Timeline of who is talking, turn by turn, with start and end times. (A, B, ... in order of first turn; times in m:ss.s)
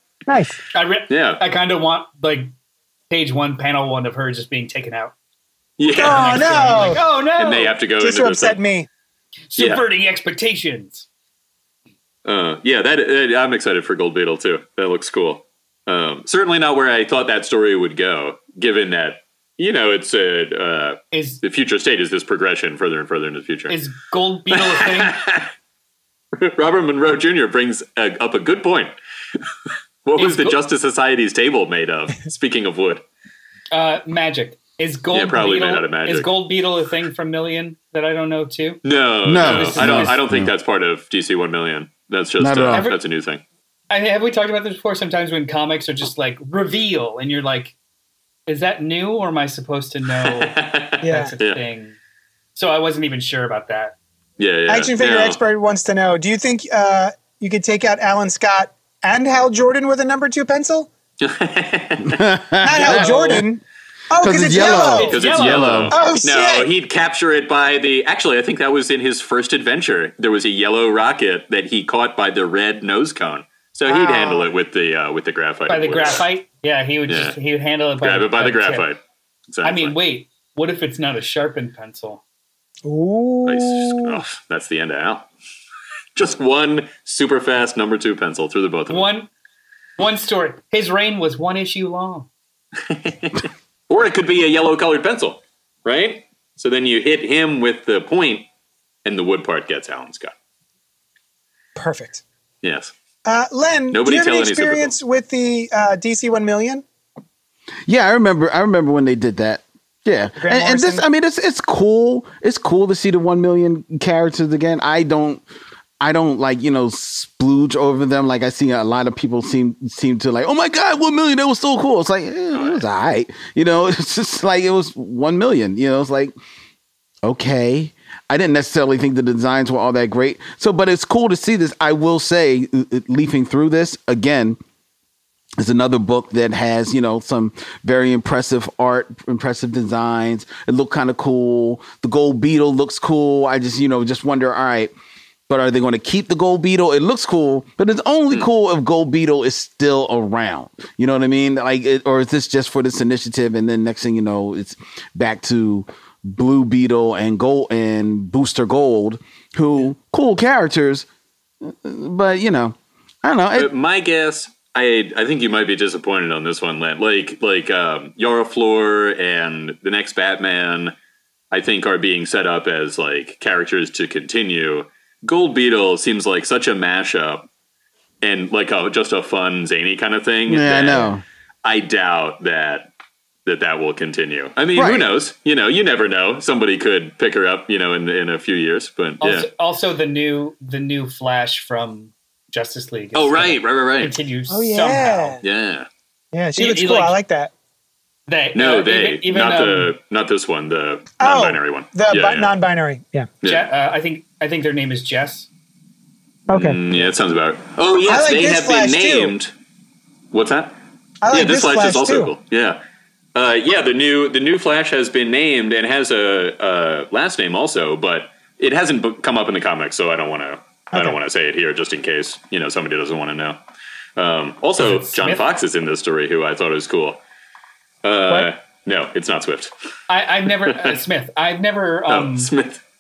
0:00.3-0:00.6 A
0:00.7-0:02.5 B
0:01.1-0:01.4 C
0:03.1-0:05.1 B
0:05.8-0:08.6 C
0:05.9-0:07.0 A
0:05.9-0:07.8 B
0:08.0-0:08.9 A
0:09.5-0:11.1 B
0:09.6-0:09.8 C
0:12.2-0:23.8 C
0:21.1-0:21.4 B
0:23.7-0:25.2 B
0:24.5-0:25.5 C
0:26.4-0:28.9 C
0:30.0-0:33.0 C
0:30.2-0:30.6 B
0:33.7-0:38.8 B
0:35.1-0:36.3 C
0:38.8-0:43.4 C
0:39.2-0:40.5 D
0:39.4-0:40.2 B
0:42.4-0:42.9 D
0:43.9-0:47.8 B
0:48.5-0:52.0 B
0:50.2-0:51.6 C
0:51.0-0:51.3 A
0:52.6-0:54.0 B
0:54.4-0:55.4 C
0:54.7-1:00.9 A
1:01.2-1:02.3 C
1:02.0-1:03.4 D
1:02.6-1:05.2 A
1:02.8-1:03.4 B
1:04.2-1:06.0 D
1:04.6-1:05.7 B
1:05.1-1:16.2 C
1:05.9-1:06.7 A
1:13.9-1:14.5 A
1:15.7-1:18.9 B
1:17.1-1:17.4 C
1:18.0-1:20.0 C
1:19.6-1:22.2 B
1:22.8-1:24.2 A
1:23.4-1:25.3 C
1:26.2-1:29.1 C
1:28.9-1:29.3 B
1:30.0-1:32.3 B
1:32.9-1:38.5 C
1:39.0-1:40.3 C
1:41.8-1:42.2 A
1:42.6-1:42.9 C
1:43.3-1:46.8 A
1:43.9-1:45.0 C
1:47.9-1:55.4 D
1:50.4-1:51.0 A
1:56.0-2:06.3 D
2:07.2-2:14.6 D
2:15.6-2:24.9 D
2:25.5-2:41.1 D
2:41.6-2:43.7 D
2:43.6-2:50.9 C
2:51.5-2:57.5 C
2:58.2-3:01.1 C
3:00.5-3:01.2 D
3:01.6-3:02.9 C
3:03.5-3:09.5 C
3:04.8-3:05.1 D
3:09.2-3:15.4 B
3:13.2-3:14.2 C
3:14.5-3:15.4 A
3:15.4-3:15.9 C
3:16.3-3:17.5 A
3:16.6-3:17.2 B
3:18.3-3:20.0 B
3:18.6-3:22.5 C
3:21.2-3:23.3 A
3:23.4-3:25.5 B
3:26.5-3:26.8 A
3:26.5-3:29.5 C
3:28.1-3:29.3 A
3:30.3-3:30.8 C
3:31.2-3:32.3 A
3:31.3-3:32.8 C
3:33.4-3:43.6 C
3:44.2-3:47.2 C
3:44.8-3:45.4 B
3:48.0-3:49.7 C
3:50.1-3:52.5 B
3:50.6-3:51.0 C
3:52.1-3:52.8 C